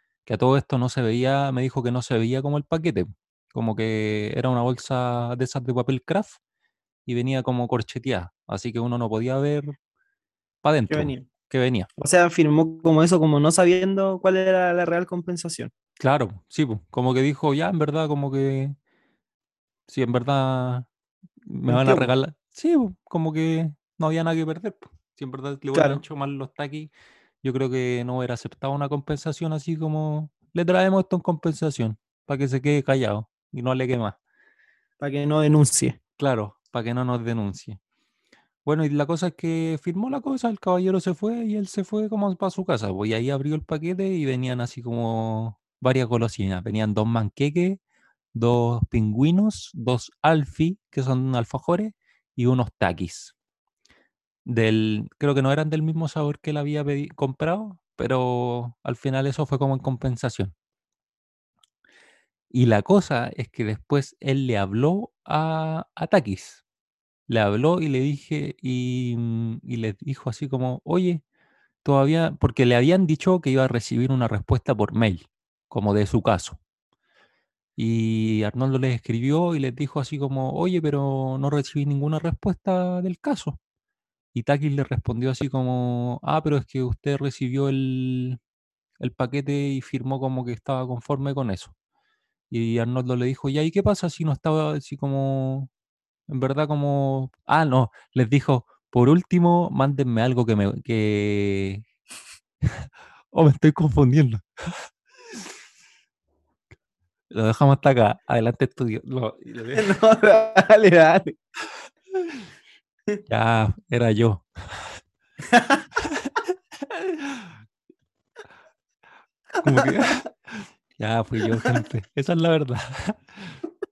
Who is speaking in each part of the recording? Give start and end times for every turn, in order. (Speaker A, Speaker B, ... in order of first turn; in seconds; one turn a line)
Speaker A: 0.3-6.4
Speaker A: 7.1-9.8
Speaker A: 10.6-11.9
Speaker B: 10.9-11.3
Speaker B: 12.0-15.7
Speaker A: 16.0-18.8
Speaker A: 19.9-20.9
Speaker A: 21.5-26.9
Speaker B: 21.7-22.1
Speaker B: 25.7-26.0
Speaker A: 27.4-34.2
Speaker B: 35.0-36.0
Speaker A: 36.2-37.8
Speaker A: 38.6-47.8
Speaker A: 48.3-53.3
Speaker A: 54.5-60.5
Speaker A: 62.5-66.6
Speaker A: 67.3-71.2
Speaker A: 71.8-76.6
Speaker A: 77.8-83.6
Speaker A: 84.3-88.4
Speaker A: 89.0-91.7
Speaker A: 92.5-95.7
Speaker A: 96.3-101.8
Speaker A: 102.6-104.9
Speaker A: 107.3-109.9
Speaker B: 109.8-111.4
Speaker A: 113.3-114.8
Speaker B: 115.4-115.9
Speaker A: 116.1-116.4
Speaker A: 116.9-117.5
Speaker A: 119.6-123.6
Speaker B: 119.8-120.1
Speaker B: 121.4-121.8